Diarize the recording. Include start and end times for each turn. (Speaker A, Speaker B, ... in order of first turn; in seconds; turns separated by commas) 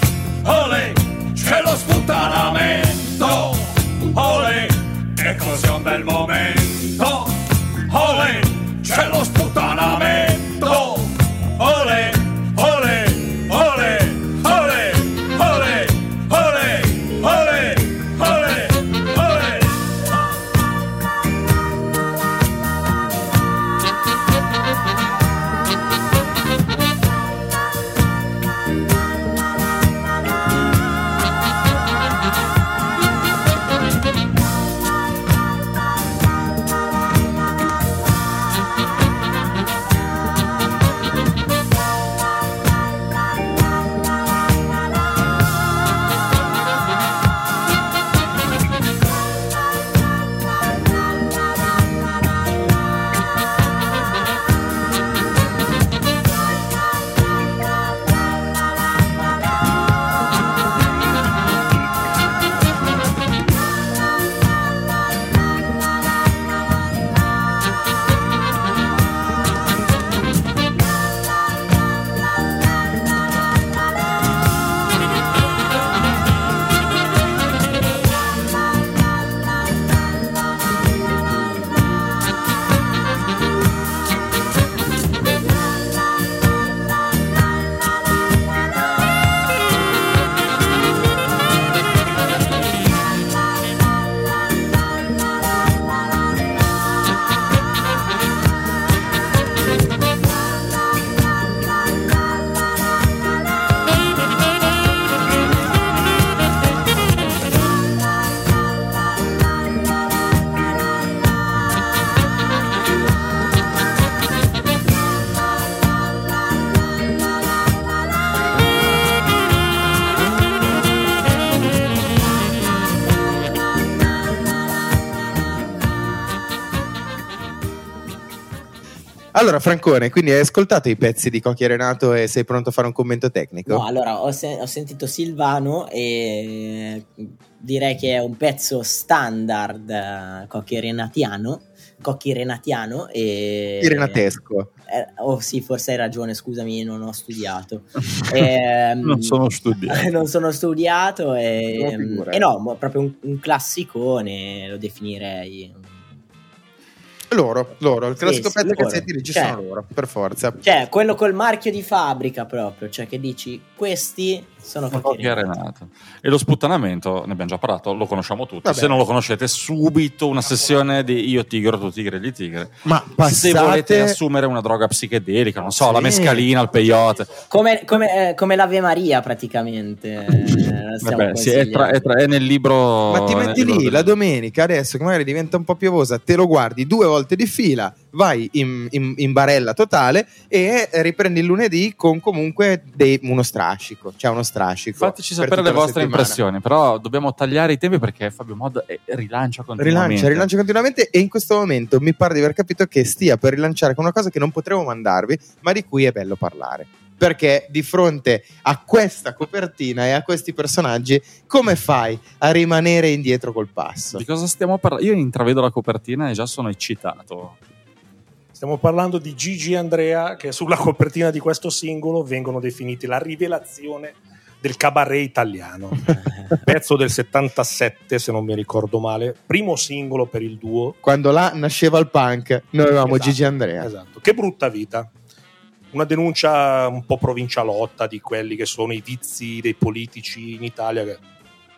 Speaker A: 0.4-19.7, Speaker B: 129.3-133.8, Speaker C: 133.7-144.3, Speaker B: 143.8-144.7, Speaker C: 144.9-149.3, Speaker D: 149.0-150.1, Speaker C: 149.9-156.1, Speaker B: 151.8-152.4, Speaker B: 157.3-160.6, Speaker C: 158.2-159.6, Speaker C: 160.6-165.5, Speaker D: 164.9-177.3, Speaker B: 168.6-169.0, Speaker B: 172.8-174.2, Speaker B: 175.8-176.4, Speaker C: 177.5-182.1, Speaker D: 181.0-184.1, Speaker B: 183.1-196.4, Speaker D: 195.0-200.5, Speaker B: 199.8-214.2, Speaker D: 214.1-217.6, Speaker E: 218.5-231.0, Speaker B: 231.0-233.9, Speaker E: 233.0-235.1, Speaker E: 235.9-241.2